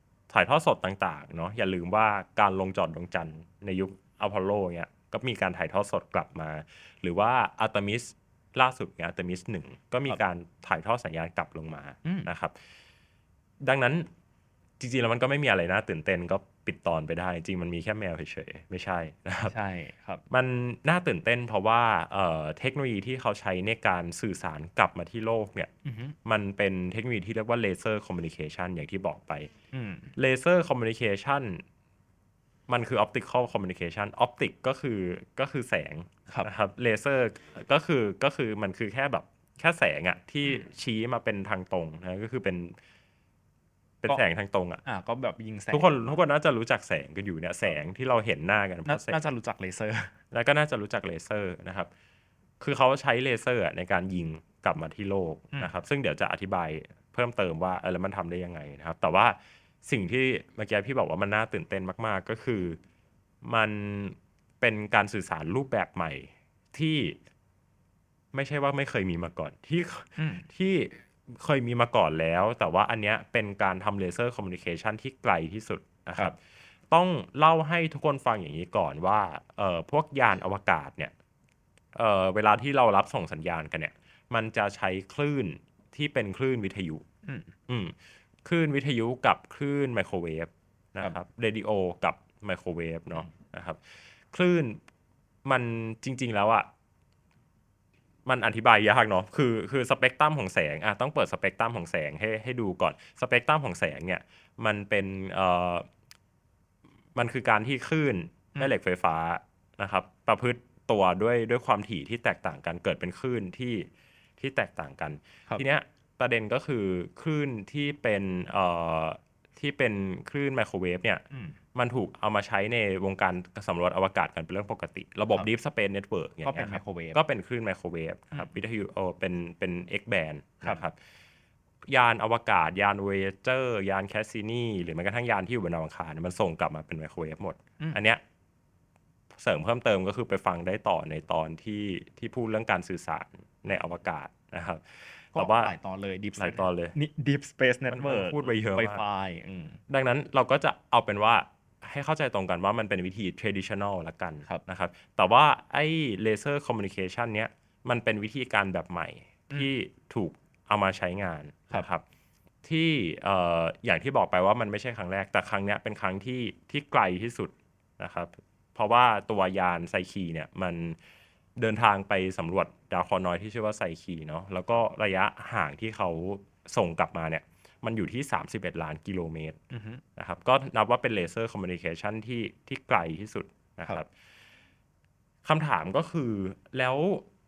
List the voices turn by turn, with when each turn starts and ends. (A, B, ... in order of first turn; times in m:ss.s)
0:00.3-0:12.6 A
0:12.0-0:12.3 B
0:13.6-0:14.1 A
0:14.8-0:19.6 A
0:19.4-0:20.2 B
0:20.3-0:25.7 A
0:25.8-0:26.2 B
0:26.2-0:29.5 A
0:29.7-0:30.1 B
0:30.2-0:31.6 A
0:32.7-0:42.8 A
0:44.0-0:44.8 A
0:44.8-0:45.9 B
0:45.7-0:49.2 A
0:48.9-0:50.1 B
0:50.3-0:51.9 A
0:52.6-1:02.8 A
1:03.4-1:07.2 A
1:08.3-1:16.4 A
1:10.2-1:10.5 B
1:16.9-1:21.1 A
1:22.0-1:27.0 A
1:27.2-1:27.5 B
1:27.7-1:33.8 A
1:34.3-1:34.8 A
1:35.4-1:36.7 A
1:38.3-1:45.9 A
1:47.2-2:01.2 A
2:01.3-2:01.6 B
2:01.8-2:11.0 A
2:06.4-2:07.2 B
2:11.9-2:18.2 A
2:19.3-2:25.7 A
2:25.4-2:29.8 B
2:26.4-2:27.0 A
2:27.9-2:29.0 A
2:29.9-2:42.0 A
2:42.6-2:51.0 A
2:51.6-2:59.6 A
2:59.7-3:00.0 B
3:00.2-3:04.1 A
3:05.4-3:07.3 A